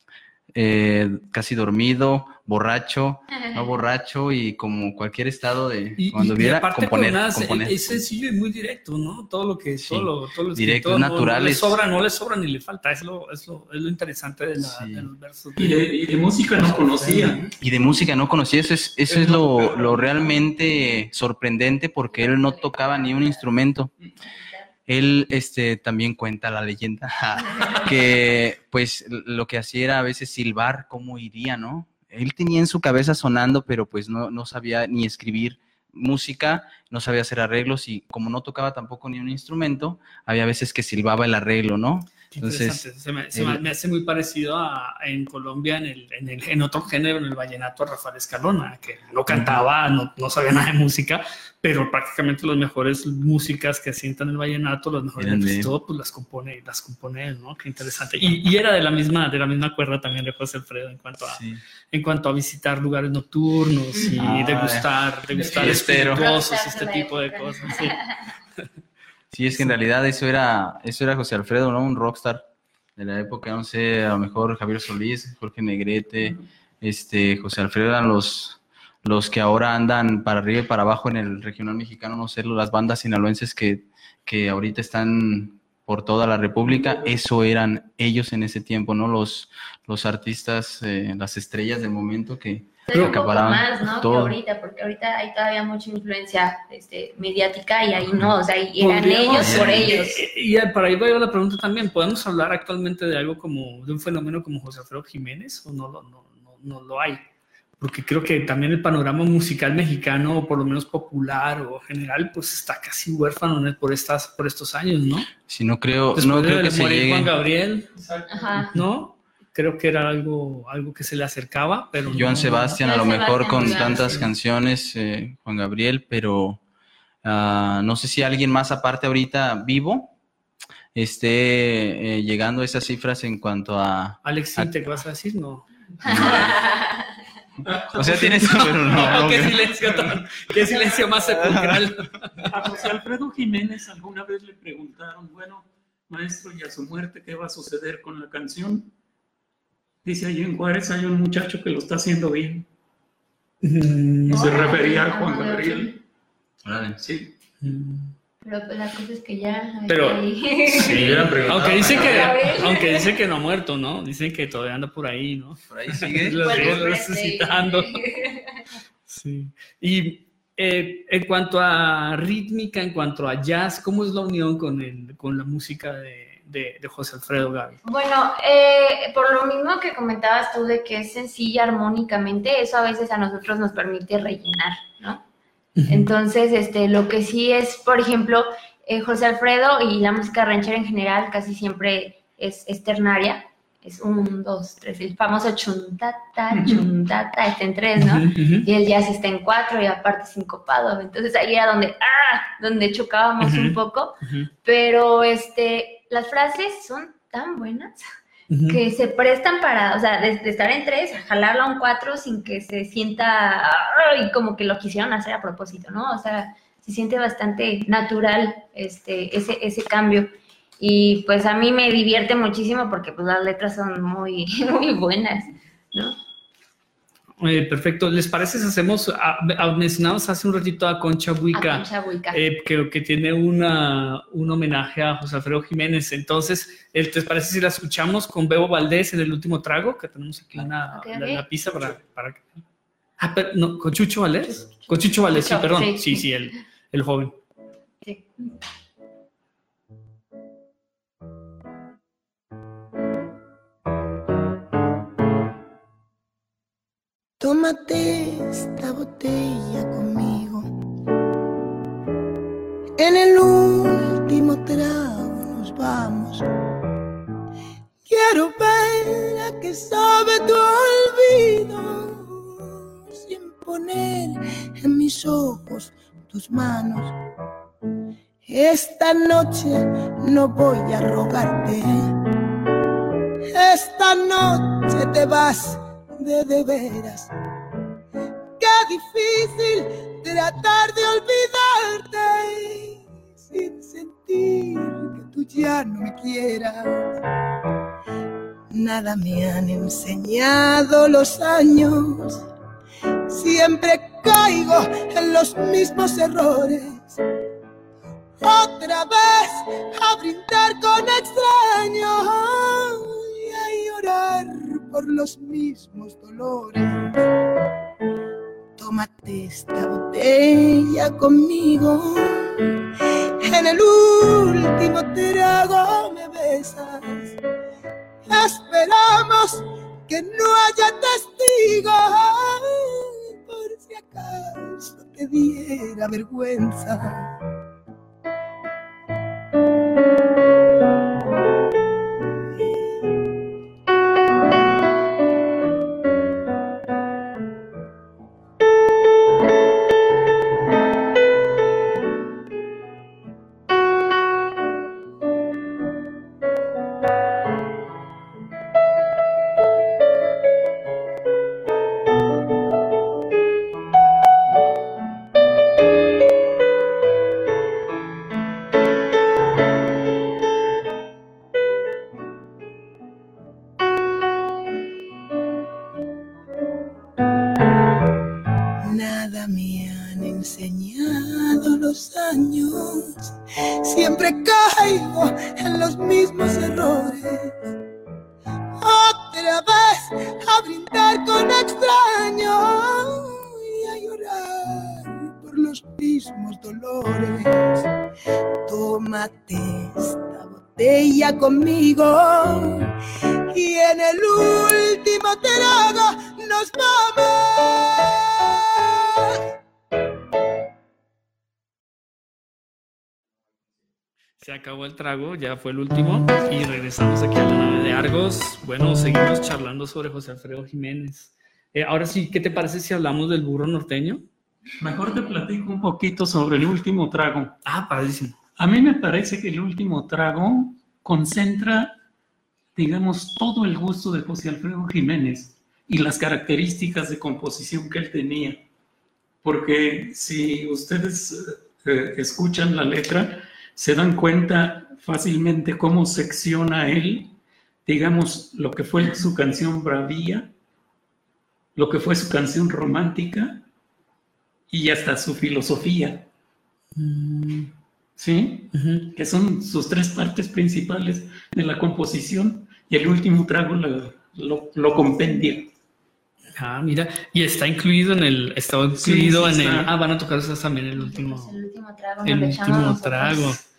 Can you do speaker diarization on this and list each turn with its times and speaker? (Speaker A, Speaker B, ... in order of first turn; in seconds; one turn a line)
Speaker A: 0.5-8.0
Speaker B: 3.4-3.7
Speaker C: 6.0-15.8
Speaker A: 9.8-11.8
Speaker A: 14.6-15.1
Speaker D: 15.6-17.4
Speaker C: 16.7-17.5
Speaker A: 17.6-23.9
Speaker D: 19.1-20.4
Speaker B: 22.1-23.5
Speaker B: 24.2-24.7
Speaker A: 24.9-43.6
Speaker C: 42.3-61.4
Speaker A: 49.3-49.6
Speaker A: 55.2-55.7
Speaker A: 61.2-61.6
Speaker C: 61.9-68.0
Speaker A: 64.0-66.3
Speaker B: 65.6-68.2
Speaker A: 69.3-72.5
Speaker A: 73.0-94.4
Speaker B: 92.9-100.2
Speaker C: 98.8-107.2
Speaker A: 99.3-99.9
Speaker C: 107.8-115.3
Speaker A: 115.4-117.3
Speaker C: 116.2-117.9
Speaker D: 118.0-118.3
Speaker B: 118.3-118.7
Speaker C: 118.7-122.8
Speaker A: 122.1-126.6
Speaker B: 122.8-124.3
Speaker C: 123.5-124.2
Speaker A: 127.2-130.1
Speaker A: 130.9-134.7
Speaker C: 134.2-136.3
Speaker A: 136.0-136.6
Speaker B: 136.1-137.1
Speaker D: 137.7-139.5
Speaker A: 137.9-141.9
Speaker C: 138.1-142.5
Speaker D: 142.5-148.9
Speaker D: 150.0-152.7
Speaker C: 153.6-154.6
Speaker B: 154.3-156.0
Speaker D: 154.3-155.9
Speaker A: 156.6-157.0
Speaker D: 157.0-157.3
Speaker C: 157.6-158.1
Speaker B: 158.4-163.2
Speaker C: 159.9-167.9
Speaker D: 160.8-162.1
Speaker A: 160.8-162.5
Speaker A: 165.7-166.8
Speaker B: 166.4-168.6
Speaker C: 169.1-177.8
Speaker B: 177.8-185.2
Speaker C: 185.8-186.1
Speaker B: 185.9-208.0
Speaker C: 198.0-198.7
Speaker C: 203.4-204.5
Speaker C: 208.5-208.8
Speaker B: 208.7-226.2
Speaker C: 227.4-242.6
Speaker B: 231.5-232.4
Speaker B: 240.9-241.4
Speaker C: 243.2-247.3
Speaker B: 244.4-246.3
Speaker B: 248.0-248.5
Speaker E: 257.4-260.7
Speaker E: 263.0-266.4
Speaker E: 268.1-272.5
Speaker E: 273.1-277.1
Speaker E: 278.4-282.1
Speaker E: 283.5-287.3
Speaker E: 288.6-297.0
Speaker E: 298.7-302.4
Speaker E: 303.3-307.2
Speaker E: 308.4-317.1
Speaker E: 318.8-322.6
Speaker E: 323.4-327.4
Speaker E: 328.3-337.3
Speaker E: 342.5-343.1
Speaker E: 378.8-387.6
Speaker E: 388.8-397.9
Speaker E: 398.7-402.9
Speaker E: 403.5-408.2
Speaker C: 414.4-424.2
Speaker D: 424.8-427.6
Speaker C: 427.7-428.4
Speaker D: 428.6-432.0
Speaker D: 432.8-438.6
Speaker D: 439.4-450.5
Speaker D: 451.8-453.6
Speaker D: 454.7-456.3
Speaker C: 457.0-457.7
Speaker D: 458.2-465.7
Speaker C: 458.7-459.1
Speaker C: 466.6-471.6
Speaker D: 469.0-469.9
Speaker B: 471.0-473.6
Speaker C: 472.2-473.6